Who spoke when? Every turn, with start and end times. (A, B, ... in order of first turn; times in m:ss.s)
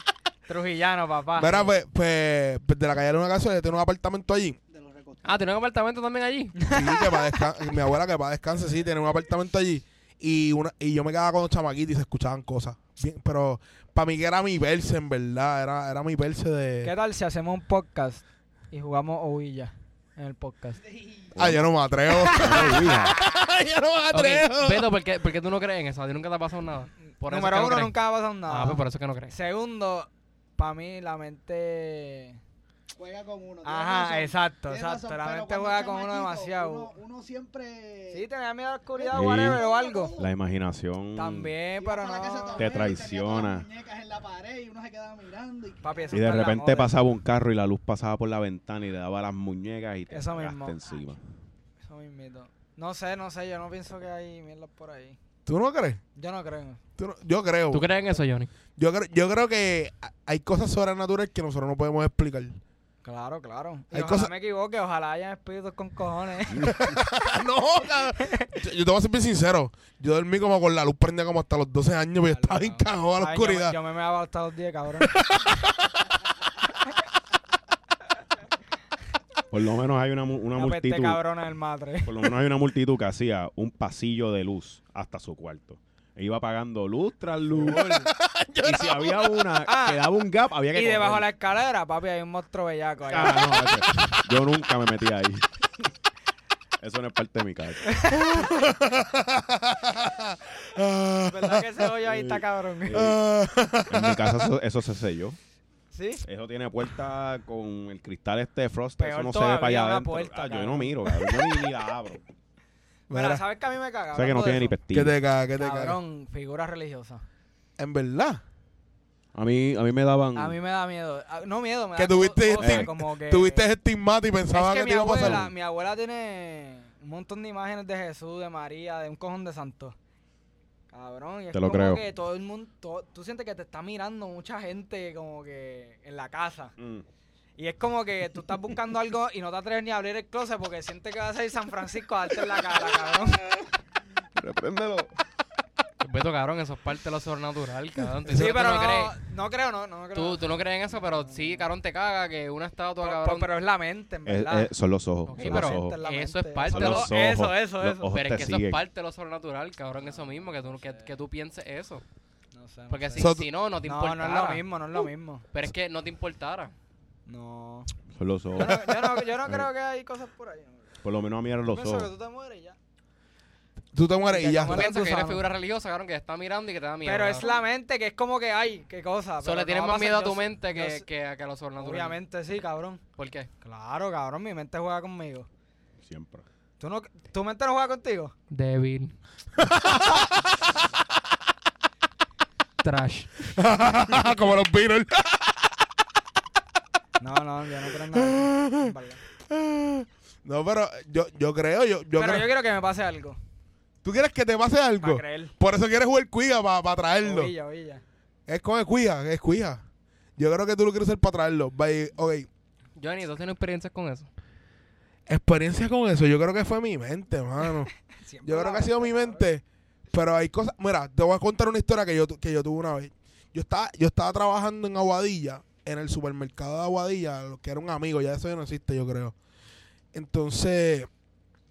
0:00.5-0:01.7 A
0:01.4-0:04.6 B
0:04.7-0:05.4 C
0:05.2-0:06.7 D
0:06.7-0:16.9 B
0:16.8-0:20.8 A
0:20.9-0:21.3 C
0:21.3-0:21.6 E
0:21.4-0:24.9 B
0:22.1-0:23.0 A
0:22.3-0:23.2 E
0:24.1-0:28.0 D
0:27.2-0:32.4 A
0:28.5-0:29.3 D
0:32.9-0:38.2 C
0:33.6-0:36.9 A
0:38.1-0:40.1 A
0:38.9-0:40.3 C
0:39.1-0:39.6 E
0:40.2-0:41.5 E
0:41.1-0:42.9 A
0:41.8-0:46.4 C
0:42.6-0:43.7 E
0:45.8-0:46.9 A
0:46.1-0:51.2 E
0:50.1-0:50.8 A
0:51.8-0:55.2 A
0:55.4-0:56.0 B
0:56.2-0:56.8 A
0:57.0-0:57.9 B
0:57.7-0:58.5 D
0:58.8-1:02.6 B
1:03.0-1:06.8 A
1:03.9-1:04.3 B
1:06.5-1:07.0 E
1:06.6-1:13.8 B
1:08.2-1:08.5 A
1:12.2-1:15.2 A
1:15.0-1:16.0 B
1:19.5-1:21.2 E
1:20.5-1:22.3 A
1:22.0-1:28.1 E
1:27.6-1:29.4 B
1:27.6-1:28.0 A
1:28.6-1:31.3 E
1:29.6-1:30.0 A
1:30.7-1:33.9 A
1:33.1-1:35.5 E
1:36.8-1:38.0 E
1:37.9-1:38.4 A
1:38.1-1:41.8 B
1:41.2-1:43.0 A
1:42.0-1:43.2 E
1:42.9-1:44.5 B
1:43.9-1:45.4 E
1:45.9-1:46.2 A
1:46.2-1:52.2 E
1:49.0-1:51.6 A
1:53.1-1:53.4 B
1:53.1-1:54.8 A
1:54.1-1:55.2 E
1:54.9-1:56.0 B
1:55.6-1:57.2 A
1:57.8-1:58.4 B
1:59.3-2:00.6 E
2:00.3-2:03.7 A
2:02.0-2:05.5 B
2:02.6-2:02.9 E
2:04.5-2:10.0 A
2:05.2-2:05.5 E
2:10.9-2:16.7 A
2:11.5-2:12.0 E
2:16.8-2:17.0 E
2:17.6-2:23.6 A
2:24.4-2:25.1 E
2:26.0-2:29.1 D
2:28.3-2:31.7 A
2:30.1-2:33.5 D
2:33.0-2:34.7 A
2:34.2-2:36.0 E
2:35.3-2:37.1 D
2:35.4-2:38.1 A
2:36.7-2:38.8 E
2:38.1-2:42.0 D
2:40.0-2:41.2 A
2:42.5-2:43.3 A
2:42.9-2:44.6 D
2:43.2-2:43.5 B
2:43.8-2:45.4 A
2:45.5-2:46.7 D
2:47.3-2:47.9 A
2:48.1-2:49.7 E
2:48.5-2:50.9 A
2:51.0-2:52.1 E
2:51.6-2:52.8 A
2:53.9-2:54.9 B
2:54.3-2:55.4 A
2:54.6-2:57.6 D
2:57.0-3:01.0 A
2:59.4-3:02.2 D
3:01.8-3:03.0 A
3:03.2-3:03.5 D
3:03.6-3:05.5 A
3:06.0-3:06.4 E
3:06.8-3:08.3 A
3:08.5-3:09.2 D
3:09.6-3:10.5 B
3:12.8-3:13.5 D
3:13.6-3:15.8 B
3:17.2-3:19.2 A
3:18.1-3:18.9 B
3:19.5-3:22.5 B
3:22.2-3:23.4 A
3:24.0-3:27.5 B
3:25.0-3:25.5 A
3:27.2-3:28.0 A
3:28.5-3:29.8 B
3:30.4-3:32.5 B
3:33.0-3:34.3 D
3:35.3-3:37.9 B
3:38.2-3:39.4 A
3:38.4-3:49.4 B
3:50.1-3:51.1 B